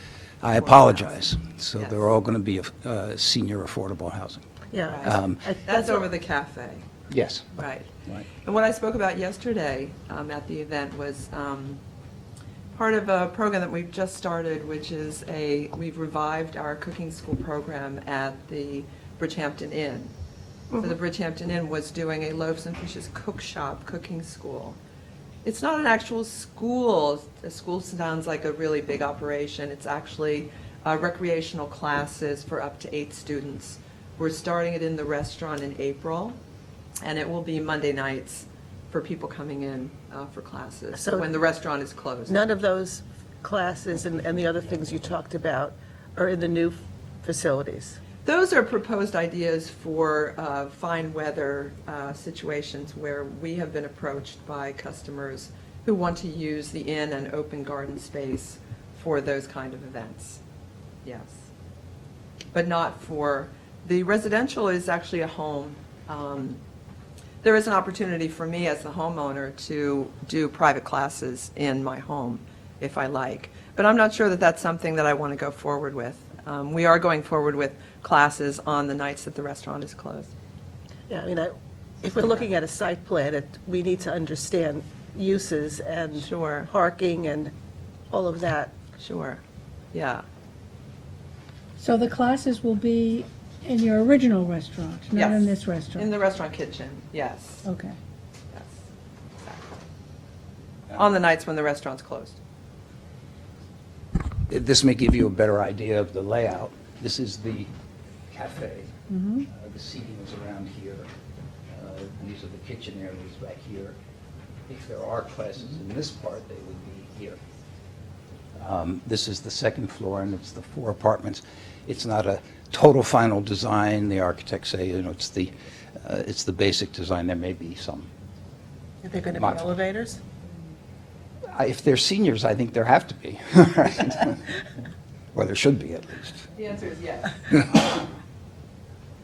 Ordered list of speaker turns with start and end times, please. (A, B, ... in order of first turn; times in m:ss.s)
0:00.4-0:04.4 A
0:00.7-0:01.0 B
0:01.7-0:02.1 B
0:04.7-0:06.0 C
0:04.9-0:06.8 B
0:05.0-0:05.4 A
0:07.1-0:07.5 A
0:07.5-0:07.9 B
0:08.4-0:11.8 B
0:12.7-0:20.1 B
0:20.7-0:24.8 B
0:25.4-0:36.4 B
0:37.0-0:42.5 B
0:40.9-0:41.3 C
0:42.3-0:48.0 C
0:48.2-1:00.4 B
1:01.0-1:01.5 B
1:02.5-1:06.6 B
1:07.4-1:20.3 B
1:21.1-1:27.5 C
1:22.2-1:22.4 B
1:26.1-1:26.7 B
1:28.1-1:28.7 C
1:29.0-1:29.4 B
1:29.9-1:30.2 B
1:31.8-1:36.1 D
1:35.1-1:37.7 B
1:37.6-1:38.0 D
1:38.5-1:38.8 B
1:39.4-1:39.7 B
1:40.9-1:42.4 B
1:44.5-1:47.7 A
1:48.3-1:51.1 A
1:49.1-1:49.4 D
1:51.7-1:54.0 A
1:54.7-1:57.4 A
1:58.6-2:08.1 A
2:09.0-2:10.2 C
2:09.4-2:09.7 A
2:11.5-2:14.6 A
2:15.3-2:16.5 A
2:16.5-2:18.1 B